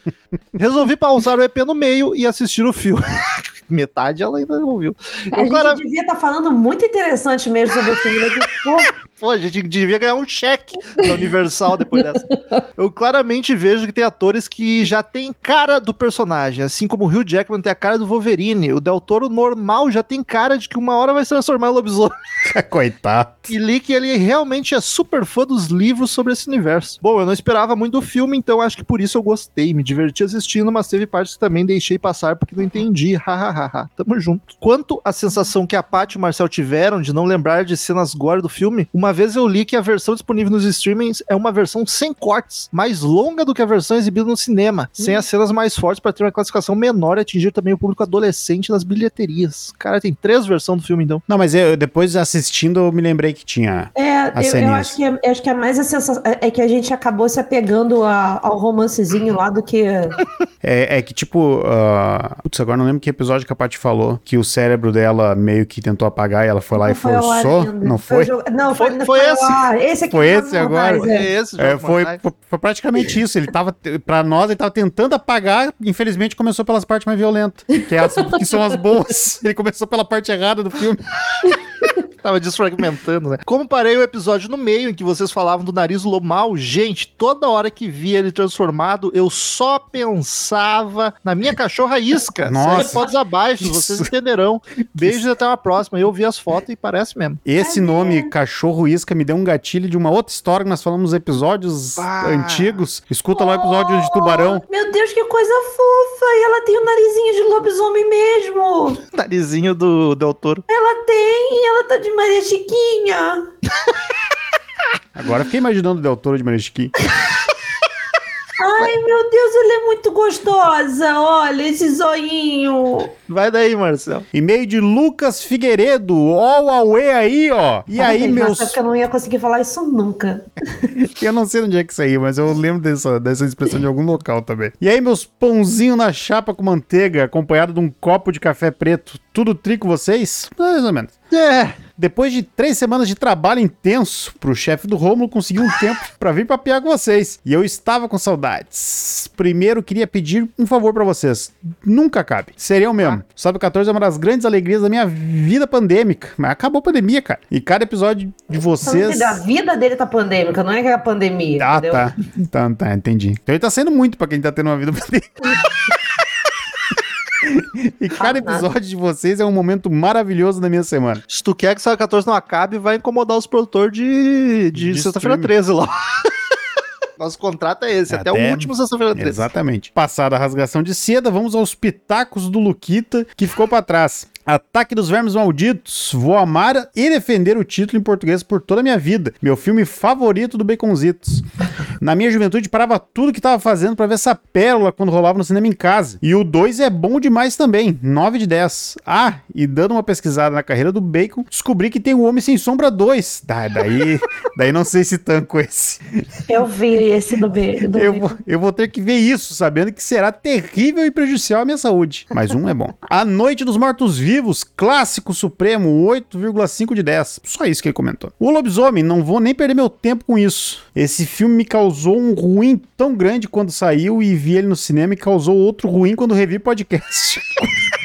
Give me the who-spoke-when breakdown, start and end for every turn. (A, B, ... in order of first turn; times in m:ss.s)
0:00.5-0:05.8 A
0:05.3-0:08.9 B
0:09.2-0:12.2 A
0:11.9-0:12.6 B
0:12.8-0:22.1 A
0:22.5-0:23.5 C
0:23.5-0:51.2 A
0:45.0-0:45.2 B
0:51.3-0:55.0 C
0:53.9-1:00.2 B
1:00.6-1:08.3 C
1:06.8-1:11.3 B
1:08.8-1:09.6 A
1:10.1-1:21.5 C
1:10.9-1:12.2 A
1:17.8-1:18.4 B
1:22.2-1:37.4 A
1:32.4-1:34.1 C
1:35.0-1:35.2 C
1:37.4-1:44.6 C
1:37.6-1:38.3 B
1:42.0-1:42.8 A
1:43.3-1:49.0 B
1:49.1-1:50.6 A
1:50.7-1:53.5 B
1:55.1-1:56.9 C
1:58.6-2:03.1 B
2:03.3-2:04.3 A
2:04.3-2:08.8 C
2:08.0-2:10.9 B
2:10.9-2:21.2 C
2:21.3-2:21.8 A
2:22.0-2:39.4 C
2:38.8-2:42.1 B
2:41.6-2:45.6 C
2:47.4-2:51.2 C
2:48.2-2:48.7 B
2:51.3-2:56.3 A
2:54.7-2:55.5 C
2:57.2-2:59.4 A
2:58.1-3:11.4 C
3:12.0-3:26.2 C
3:26.5-3:28.3 B
3:27.9-3:47.7 C